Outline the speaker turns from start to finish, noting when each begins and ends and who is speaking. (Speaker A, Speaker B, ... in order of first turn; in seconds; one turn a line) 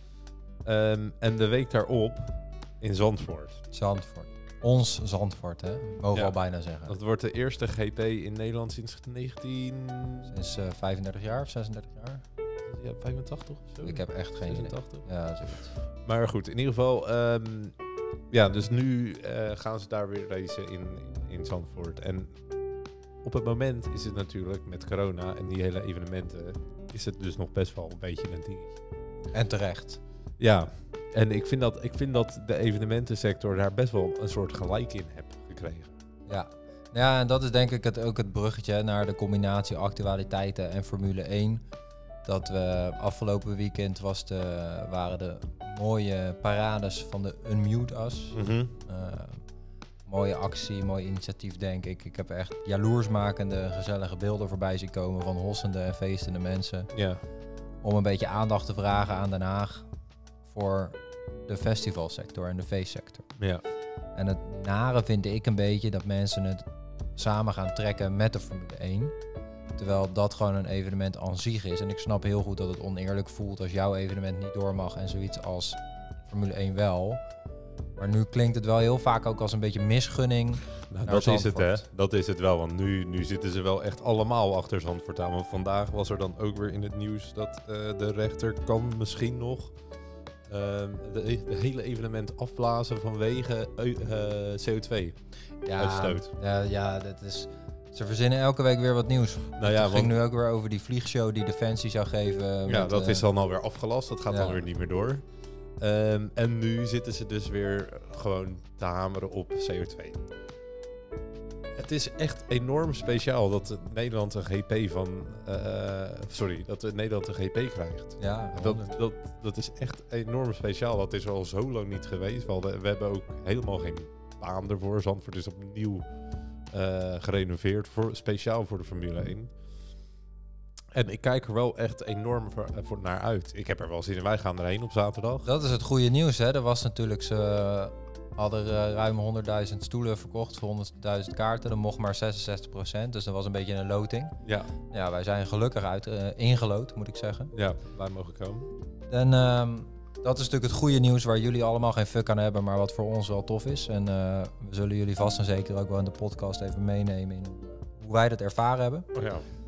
Speaker A: 0.6-3.6
Speaker B: 3.7-7.0
Speaker A: 6.9-10.3
Speaker B: 10.3-12.2
Speaker A: 12.6-15.1
Speaker B: 13.8-15.7
Speaker A: 15.8-17.8
Speaker A: 18.3-22.4
Speaker A: 23.2-28.8
Speaker B: 29.3-30.0
Speaker A: 30.4-35.9
Speaker B: 36.3-41.6
Speaker B: 42.2-49.4
Speaker A: 48.3-48.7
Speaker B: 50.1-56.9
Speaker A: 56.9-57.2
Speaker B: 57.8-59.9
Speaker B: 60.5-63.3
Speaker B: 64.2-69.2
Speaker B: 69.8-77.2
Speaker B: 78.0-81.8
Speaker A: 80.8-89.7
Speaker A: 90.5-95.2
Speaker B: 95.7-103.2
Speaker A: 95.7-96.3
Speaker A: 99.6-100.2
Speaker A: 102.7-105.2
Speaker B: 104.3-104.6
Speaker A: 105.8-110.2
Speaker A: 111.7-126.1
Speaker B: 118.2-118.9
Speaker A: 126.7-129.5
Speaker A: 130.9-135.5
Speaker B: 135.4-147.5
Speaker A: 144.4-144.7
Speaker A: 147.5-148.7
Speaker B: 149.1-159.1
Speaker A: 159.1-159.4